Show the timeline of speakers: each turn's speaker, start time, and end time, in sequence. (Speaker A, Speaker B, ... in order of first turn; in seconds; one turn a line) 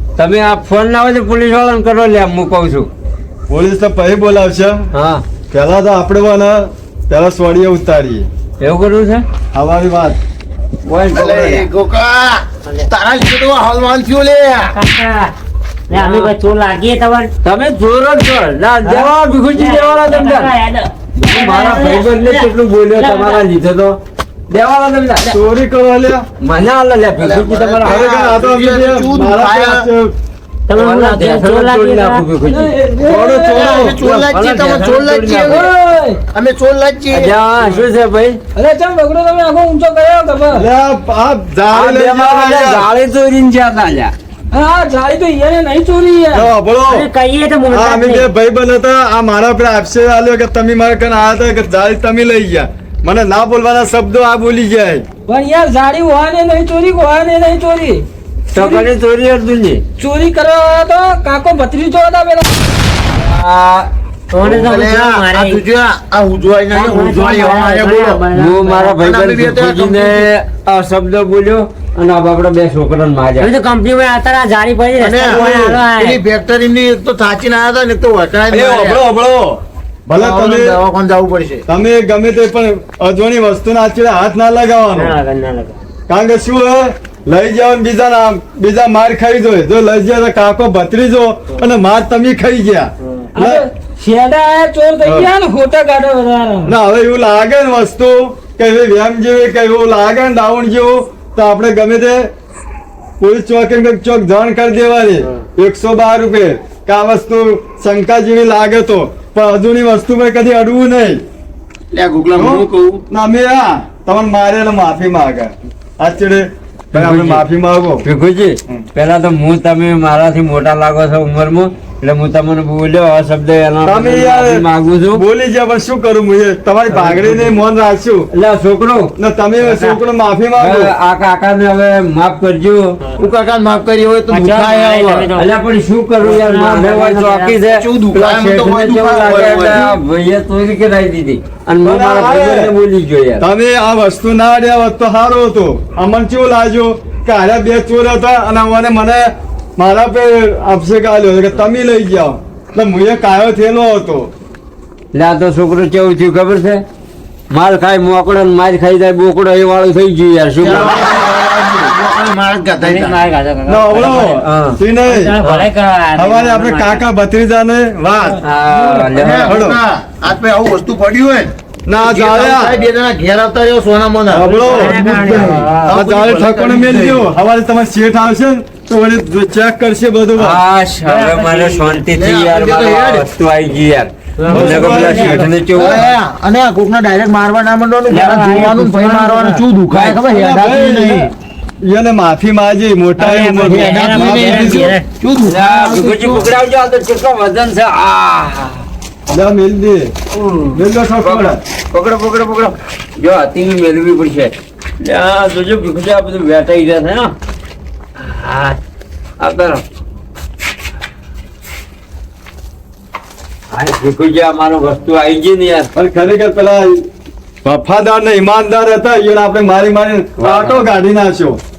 Speaker A: 0.2-2.9
Speaker B: 3.5-4.8
Speaker A: 4.9-5.2
Speaker B: 5.5-8.3
Speaker A: 8.6-9.2
Speaker B: 9.5-10.2
Speaker A: 10.8-11.7
Speaker C: 11.1-14.8
Speaker D: 14.7-15.3
Speaker D: 15.9-17.3
Speaker A: 15.9-16.3
Speaker A: 17.4-20.5
Speaker D: 18.9-23.4
Speaker A: 21.2-24.0
Speaker A: 24.5-25.3
Speaker B: 25.3-26.3
Speaker A: 26.4-28.1
Speaker C: 27.2-29.9
Speaker B: 27.8-30.1
Speaker D: 30.7-32.2
Speaker A: 30.8-32.7
Speaker E: 32.5-33.9
Speaker B: 33.1-34.0
Speaker C: 33.4-35.7
Speaker A: 33.8-35.8
Speaker E: 35.6-36.1
Speaker C: 36.3-37.4
Speaker A: 37.1-38.4
Speaker E: 38.5-40.6
Speaker B: 40.5-42.9
Speaker A: 41.7-44.1
Speaker E: 44.5-46.5
Speaker B: 46.3-47.1
Speaker D: 46.9-48.3
Speaker B: 47.7-55.0
Speaker E: 55.3-58.0
Speaker A: 58.5-59.8
Speaker E: 58.5-58.9
Speaker E: 60.0-62.6
Speaker A: 63.1-63.9
Speaker D: 64.3-65.6
Speaker C: 64.4-68.2
Speaker D: 66.7-69.0
Speaker A: 68.3-73.5
Speaker C: 69.0-70.3
Speaker D: 73.4-76.2
Speaker C: 75.0-79.0
Speaker B: 75.2-75.8
Speaker B: 78.5-79.6
Speaker C: 80.1-81.7
Speaker B: 80.1-80.8
Speaker B: 81.7-85.1
Speaker D: 84.9-85.8
Speaker B: 86.1-93.7
Speaker D: 93.0-93.3
Speaker E: 93.4-96.8
Speaker B: 95.0-95.3
Speaker B: 96.7-102.3
Speaker B: 103.2-111.2
Speaker C: 111.9-113.0
Speaker B: 112.4-118.1
Speaker A: 116.9-117.5
Speaker A: 118.0-125.2
Speaker B: 123.8-128.3
Speaker A: 126.9-127.6
Speaker A: 128.3-129.1
Speaker B: 129.2-130.9
Speaker A: 130.6-132.8
Speaker C: 133.2-135.1
Speaker D: 134.3-135.5
Speaker A: 135.0-143.4
Speaker D: 136.2-137.6
Speaker C: 137.7-140.0
Speaker B: 141.8-142.7
Speaker B: 143.4-154.3
Speaker A: 155.1-156.8
Speaker A: 157.5-161.2
Speaker C: 160.6-163.2
Speaker B: 160.7-161.2
Speaker D: 162.8-164.4
Speaker B: 163.7-165.4
Speaker A: 164.0-164.8
Speaker D: 165.1-167.0
Speaker A: 165.4-165.7
Speaker B: 166.2-168.4
Speaker A: 168.4-169.6
Speaker C: 169.2-177.3
Speaker B: 169.4-169.8
Speaker B: 171.9-172.8
Speaker B: 174.3-180.6
Speaker D: 174.6-176.0
Speaker A: 180.4-186.1
Speaker D: 181.0-182.0
Speaker C: 182.1-183.3
Speaker D: 184.4-185.5
Speaker B: 184.5-185.5
Speaker C: 185.7-191.3
Speaker A: 188.1-188.8
Speaker D: 188.2-189.6
Speaker A: 189.9-190.4
Speaker B: 190.3-191.3
Speaker B: 191.8-194.9
Speaker D: 193.2-195.1
Speaker C: 193.6-196.5
Speaker A: 195.4-198.9
Speaker B: 199.3-200.1
Speaker A: 200.3-207.3
Speaker B: 200.7-201.6
Speaker A: 208.2-208.8
Speaker A: 209.4-209.8
Speaker A: 213.7-215.9
Speaker B: 216.0-217.1
Speaker B: 217.7-221.6
Speaker A: 220.4-221.0